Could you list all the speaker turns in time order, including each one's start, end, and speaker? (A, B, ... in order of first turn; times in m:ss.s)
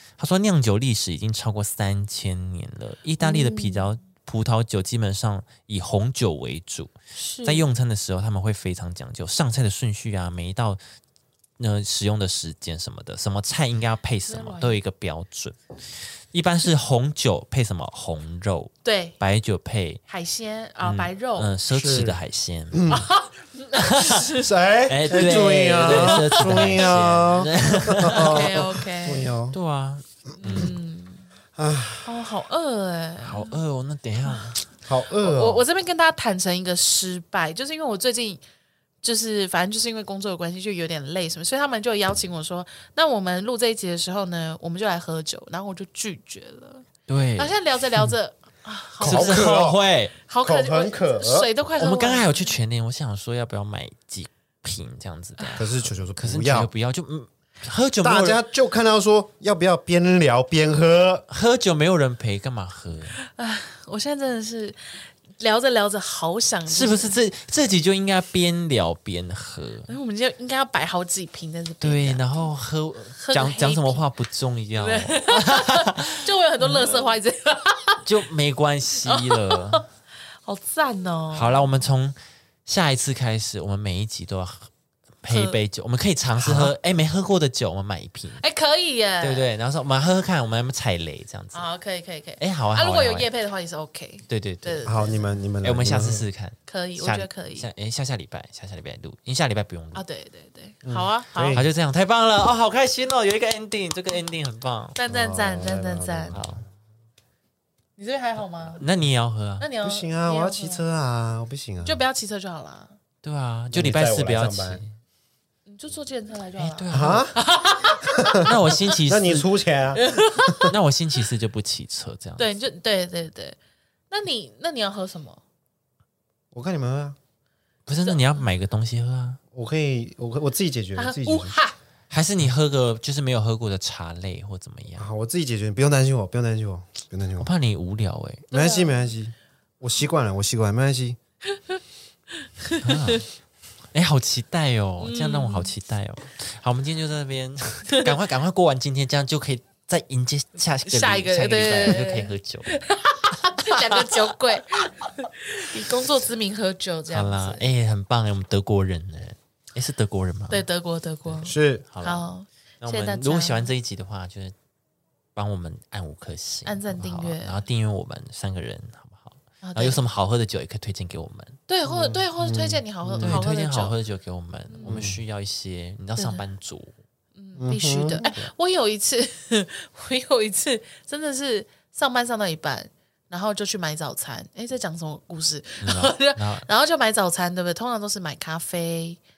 0:00.2-0:06.9 A
0:03.2-0:03.9 B
0:07.1-0:07.6 B
0:07.4-0:10.8 A
0:11.6-0:15.6 A
0:14.3-0:14.8 B
0:16.3-0:20.0 A
0:18.8-0:19.2 B
0:20.1-0:21.5 B
0:20.8-0:22.9 A
0:21.7-0:22.2 C
0:22.7-0:23.1 C
0:22.9-0:24.5 B
0:23.8-0:24.3 A
0:24.3-0:29.6 C
0:24.9-0:28.7 A
0:25.8-0:26.9 B
0:28.0-0:29.3 B
0:29.5-0:30.7 A
0:30.4-0:31.2 B
0:31.6-0:32.2 C
0:32.0-0:33.6 B
0:33.2-0:34.6 A
0:34.2-0:34.5 B
0:34.8-0:35.6 C
0:35.1-0:38.4 B
0:39.0-0:49.6 B
0:47.1-0:47.5 A
0:49.0-0:49.8 C
0:49.0-0:50.1 A
0:50.3-0:52.5 B
0:50.4-0:51.5 C
0:51.8-0:58.4 A
0:55.6-0:56.7 C
0:58.0-1:01.2 C
1:01.3-1:03.2 A
1:03.2-1:07.2 B
1:06.7-1:09.9 A
1:09.9-1:12.5 B
1:11.8-1:17.1 A
1:13.2-1:14.0 B
1:14.8-1:18.0 B
1:18.0-1:19.8 A
1:19.0-1:19.8 B
1:20.4-1:21.6 B
1:21.3-1:24.7 A
1:25.2-1:28.4 A
1:25.3-1:25.6 B
1:26.4-1:26.7 C
1:28.4-1:29.5 B
1:29.2-1:31.6 A
1:31.5-1:35.3 B
1:32.4-1:33.3 A
1:34.3-1:34.9 A
1:34.8-1:36.2 C
1:35.6-1:40.0 A
1:36.7-1:37.7 B
1:39.9-1:41.6 B
1:40.8-1:41.7 C
1:41.5-1:45.0 A
1:45.0-1:46.4 B
1:45.0-1:46.5 C
1:46.3-1:46.6 A
1:48.0-1:48.8 B
1:48.7-1:49.7 A
1:49.6-1:50.8 B
1:49.8-1:52.0 C
1:51.8-1:53.0 B
1:53.2-1:54.9 A
1:53.7-1:54.8 C
1:55.6-1:58.5 B
1:56.6-1:57.3 A
1:56.9-1:57.4 C
1:58.4-1:59.5 A
1:59.0-2:00.6 C
2:00.0-2:00.7 B
2:00.6-2:02.4 A
2:02.4-2:03.6 B
2:04.1-2:05.4 B
2:06.5-2:07.2 C
2:07.8-2:09.4 A
2:08.0-2:08.4 B
2:09.5-2:11.5 C
2:11.0-2:11.7 B
2:12.1-2:15.1 A
2:15.0-2:17.5 C
2:17.4-2:18.5 A
2:18.5-2:19.1 B
2:18.5-2:21.2 C
2:22.6-2:23.2 B
2:22.8-2:23.3 A
2:23.9-2:32.7 A
2:25.0-2:25.7 B
2:30.8-2:37.6 B
2:37.1-2:40.6 A
2:40.5-2:43.7 B
2:41.2-2:42.3 A
2:41.4-2:41.8 C
2:42.8-2:44.5 A
2:45.3-2:51.6 A
2:46.6-2:47.6 B
2:49.6-2:50.0 B
2:51.7-2:54.0 B
2:51.8-2:53.4 C
2:53.2-2:56.9 A
2:54.7-2:55.1 B
2:54.8-2:55.2 C
2:56.2-2:56.4 B
2:57.4-3:09.2 B
2:57.6-2:58.3 C
2:58.2-2:58.5 A
3:05.8-3:06.7 A